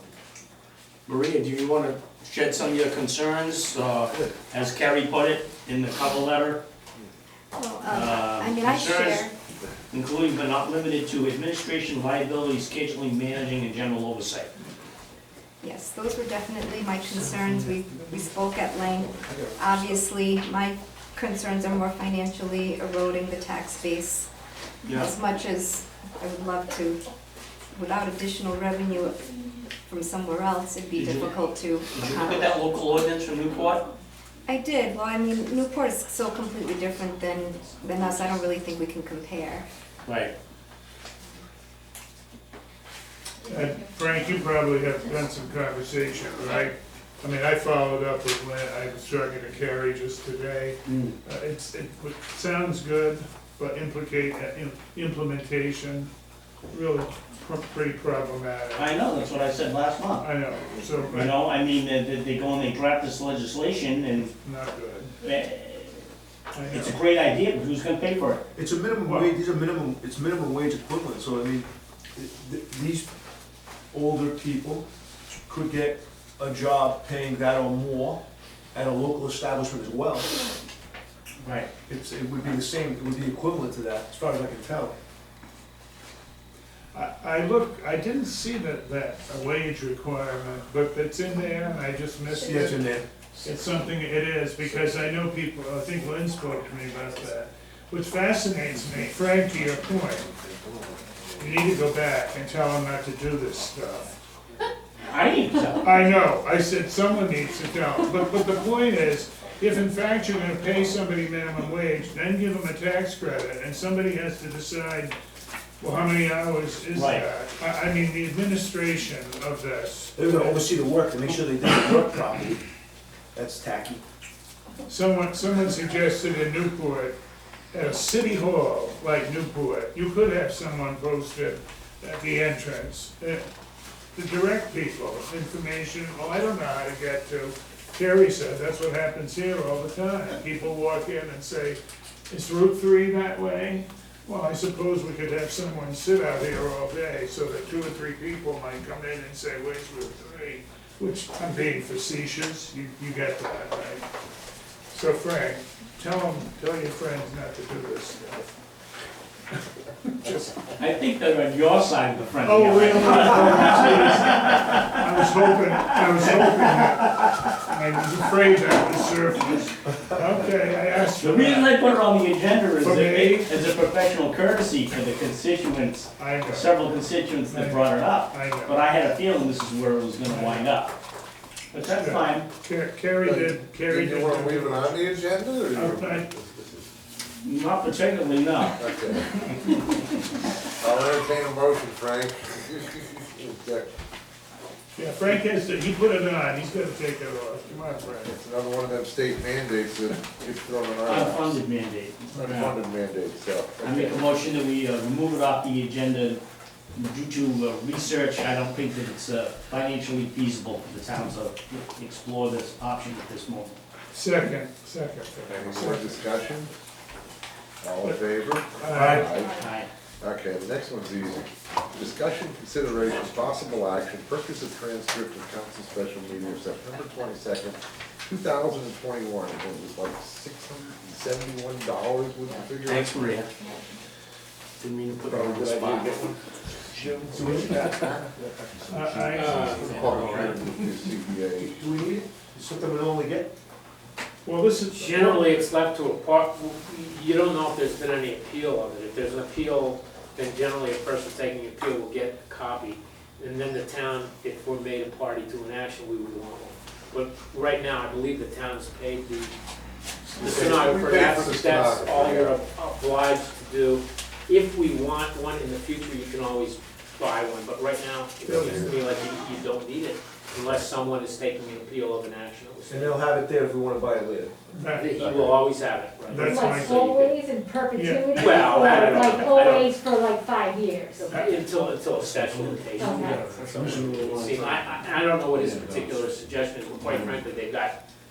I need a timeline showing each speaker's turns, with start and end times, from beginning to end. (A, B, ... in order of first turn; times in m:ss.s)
0:01.1-0:06.6 A
0:07.6-0:09.3 B
0:07.9-0:09.3 A
0:09.9-0:14.5 A
0:15.6-0:24.3 B
0:19.1-0:19.8 C
0:24.8-0:25.1 A
0:24.9-0:27.0 B
0:27.7-0:29.2 B
0:29.8-0:32.6 B
0:31.0-0:33.8 A
0:34.5-0:39.6 B
0:40.0-0:40.3 A
0:43.5-0:56.1 D
0:50.9-0:51.2 A
0:56.7-0:58.9 D
0:58.8-1:00.3 A
1:00.2-1:01.4 D
1:01.1-1:04.4 A
1:04.4-1:05.1 D
1:05.2-1:06.1 A
1:06.5-1:07.0 D
1:06.7-1:08.4 A
1:08.6-1:13.1 C
1:09.1-1:09.4 D
1:13.9-1:14.9 C
1:15.5-1:18.2 C
1:18.7-1:20.4 C
1:21.9-1:25.0 C
1:26.9-1:32.9 D
1:32.4-1:33.0 C
1:33.4-1:40.3 D
1:40.3-1:41.2 E
1:41.4-1:44.1 D
1:45.1-1:46.0 A
1:45.8-1:55.2 D
1:55.8-2:00.6 D
1:56.9-1:57.2 A
2:00.2-2:02.6 C
2:03.3-2:04.0 C
2:04.9-2:07.2 D
2:07.7-2:13.5 D
2:14.1-2:34.1 D
2:34.9-2:38.4 D
2:40.1-2:40.6 D
2:40.8-2:45.0 A
2:42.4-2:51.8 D
2:46.2-2:47.4 A
2:51.2-3:01.0 A
2:52.8-2:53.5 D
2:56.2-2:56.8 D
2:57.5-2:58.8 D
3:00.2-3:00.7 D
3:01.7-3:02.5 A
3:01.9-3:05.1 D
3:03.2-3:06.8 E
3:05.7-3:06.3 D
3:07.4-3:08.8 A
3:08.8-3:09.4 E
3:10.8-3:13.9 E
3:15.0-3:18.3 D
3:18.2-3:21.6 E
3:21.0-3:22.8 A
3:22.3-3:24.3 E
3:23.8-3:26.4 A
3:26.9-3:33.8 A
3:34.1-3:36.2 D
3:35.5-3:36.7 E
3:37.8-3:39.6 E
3:38.8-3:39.3 D
3:38.9-3:39.3 C
3:39.4-3:39.9 A
3:40.2-3:53.2 E
3:52.8-3:53.5 A
3:54.8-3:56.2 A
3:55.3-3:56.3 E
3:56.9-4:01.9 E
3:57.0-3:58.2 C
3:58.9-3:59.8 D
3:59.3-4:00.6 F
3:59.4-4:00.3 A
4:01.8-4:03.5 C
4:04.4-4:05.6 D
4:04.9-4:19.6 F
4:20.2-4:22.6 E
4:20.4-4:33.2 F
4:28.4-4:28.9 C
4:32.9-4:34.6 C
4:34.7-4:35.1 D
4:34.9-4:37.4 F
4:35.2-4:35.5 C
4:36.3-4:37.0 D
4:36.4-4:41.5 G
4:37.9-4:39.0 D
4:38.4-4:40.0 F
4:41.1-4:48.0 F
4:41.3-4:41.6 D
4:42.6-4:43.2 A
4:42.9-4:43.6 G
4:43.7-4:44.9 C